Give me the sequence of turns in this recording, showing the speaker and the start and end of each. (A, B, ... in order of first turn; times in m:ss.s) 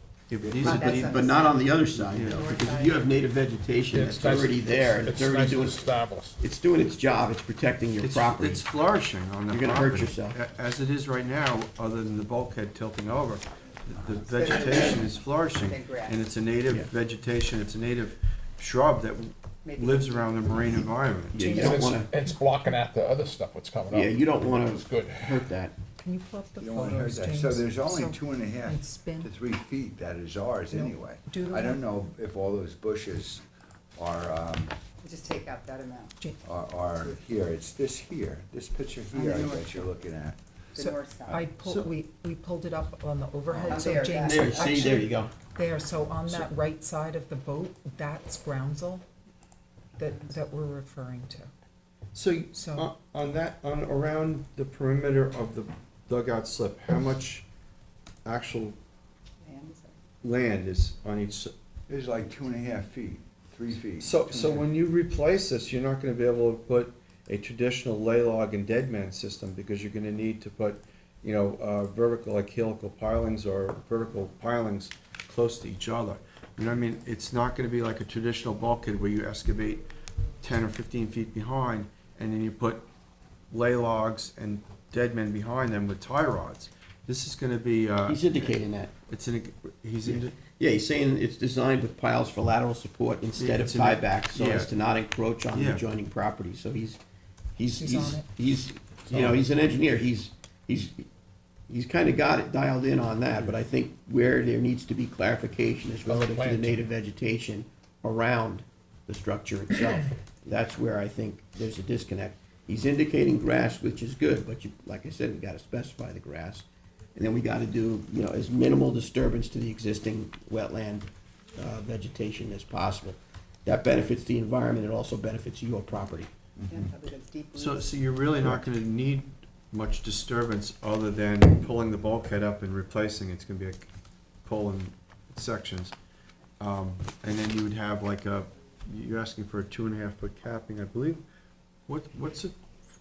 0:00.3-0:01.2 A
0:00.5-0:03.1 B
0:00.6-0:05.9 C
0:02.0-0:02.4 A
0:03.9-0:06.4 D
0:06.4-0:08.7 C
0:08.0-0:21.5 A
0:09.5-0:10.4 C
0:14.4-0:16.2 B
0:19.6-0:20.7 B
0:21.3-0:22.1 C
0:21.4-0:21.8 E
0:21.4-0:25.5 D
0:23.9-0:25.8 C
0:26.0-0:29.3 E
0:26.6-0:33.4 F
0:30.7-0:31.8 E
0:34.0-0:34.7 F
0:35.0-0:36.1 B
0:36.4-0:40.4 F
0:39.1-0:39.9 B
0:40.7-0:41.5 B
0:40.8-0:49.0 E
0:41.6-0:41.9 A
0:43.6-0:44.9 B
0:44.2-0:45.3 C
0:50.0-0:51.5 E
0:50.0-0:50.4 B
0:52.1-0:57.4 A
0:52.5-0:52.9 E
0:58.2-0:58.8 A
0:59.4-1:00.0 B
1:00.2-1:01.5 A
1:01.9-1:04.7 F
1:04.0-1:19.9 A
1:20.4-1:22.9 A
1:23.5-1:28.5 A
1:28.1-1:28.9 C
1:29.1-1:30.4 A
1:30.0-1:37.0 C
1:33.4-1:34.7 A
1:35.5-1:35.8 A
1:37.6-1:41.1 C
1:37.6-1:38.3 E
1:39.1-1:39.4 D
1:41.7-1:56.6 C
1:46.1-1:46.8 D
1:57.2-2:06.3 C
2:06.6-2:06.9 F
2:06.6-2:08.1 B
2:07.6-2:13.9 A
2:14.4-2:15.9 A
2:16.6-2:21.2 A
2:21.9-2:22.6 A